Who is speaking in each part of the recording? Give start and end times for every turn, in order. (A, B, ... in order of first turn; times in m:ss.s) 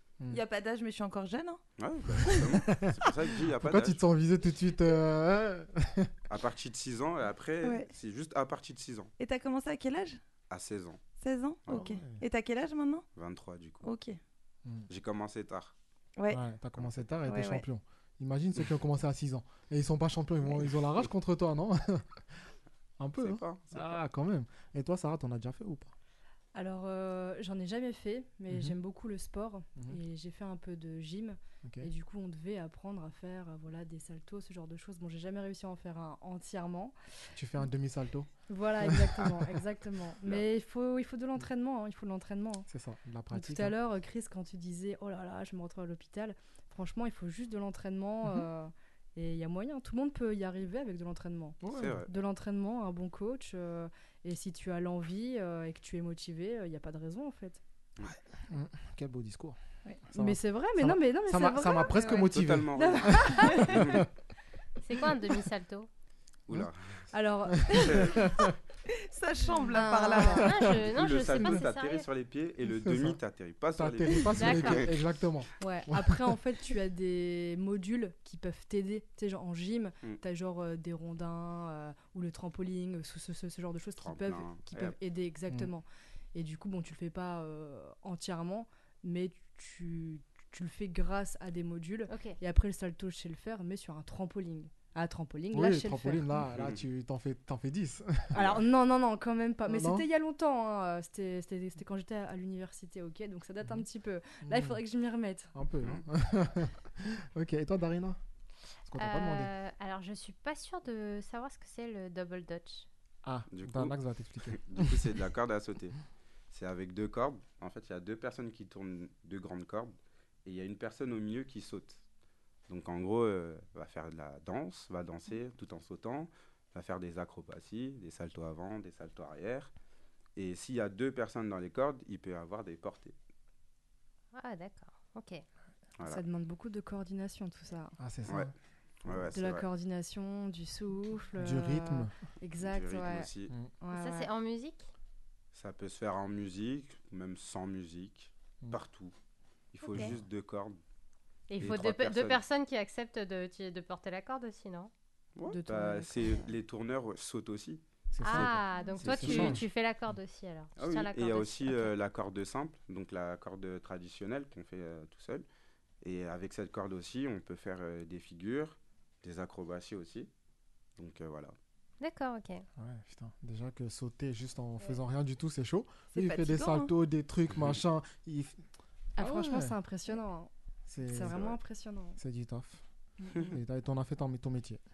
0:00.3-0:01.6 A
0:01.8-0:04.0 B
0:02.2-0:02.6 A
0:02.5-0:06.2 C
0:06.3-0:09.1 B
0:07.6-0:07.9 A
0:09.2-0:10.2 A
0:10.5-0:11.0 B
0:11.2-0:13.0 A
0:11.7-0:12.2 C
0:13.2-0:13.9 B
0:13.8-0:14.2 A
0:14.9-0:15.7 B
0:16.3-0:22.0 C
0:16.8-0:17.0 B
0:17.2-0:17.7 A
0:23.0-0:25.9 C
0:23.2-0:24.0 B
0:26.5-0:37.0 D
0:28.5-0:28.8 C
0:31.6-0:31.9 C
0:37.4-0:38.3 C
0:38.5-0:42.7 D
0:38.8-0:39.6 C
0:42.7-0:43.8 C
0:43.3-0:57.6 D
0:51.6-0:52.1 C
0:51.7-0:52.1 B
0:58.5-0:59.6 C
1:00.1-1:02.3 D
1:00.1-1:04.1 C
1:02.1-1:04.1 B
1:02.8-1:03.6 D
1:04.8-1:05.9 E
1:06.5-1:07.1 B
1:07.1-1:08.1 D
1:07.6-1:08.6 C
1:07.7-1:08.2 B
1:08.9-1:10.6 A
1:09.7-1:12.1 E
1:10.4-1:10.8 C
1:10.7-1:15.0 B
1:12.6-1:13.2 C
1:13.7-1:16.3 C
1:14.3-1:14.9 E
1:15.6-1:36.4 D
1:24.0-1:25.0 B
1:32.1-1:32.4 E
1:35.5-1:38.4 C
1:36.5-1:36.8 B
1:38.3-1:38.6 B
1:38.3-1:45.5 D
1:39.7-1:40.0 C
1:44.4-1:44.8 C
1:45.5-1:48.2 C
1:48.9-1:49.5 C
1:49.0-1:52.9 E
1:53.2-1:55.2 C
1:53.5-1:56.0 B
1:56.5-1:59.9 B
2:00.4-2:02.0 B
2:02.7-2:09.7 B
2:10.4-2:13.2 B
2:14.4-2:15.4 E
2:16.0-2:16.2 B
2:16.1-2:18.0 D
2:18.0-2:18.5 C
2:19.0-2:19.7 B
2:19.3-2:23.3 D
2:21.4-2:22.1 C
2:22.6-2:23.5 B
2:23.8-2:24.3 D
2:23.9-2:24.9 E
2:25.5-2:29.2 B
2:29.7-2:30.8 B
2:29.9-2:30.2 E
2:31.5-2:34.9 E
2:31.6-2:32.4 B
2:35.4-2:39.6 B
2:35.5-2:36.5 D
2:38.1-2:39.7 C
2:38.2-2:41.9 E
2:40.8-2:45.4 B
2:46.0-2:50.3 B
2:51.0-2:51.5 B
2:52.0-2:52.6 E
2:52.8-2:58.6 C
2:56.1-2:56.9 A
2:59.2-3:00.5 D
2:59.2-2:59.8 C
3:00.9-3:01.4 C
3:01.0-3:02.2 D
3:01.2-3:01.6 B
3:02.2-3:02.8 C
3:03.5-3:04.8 C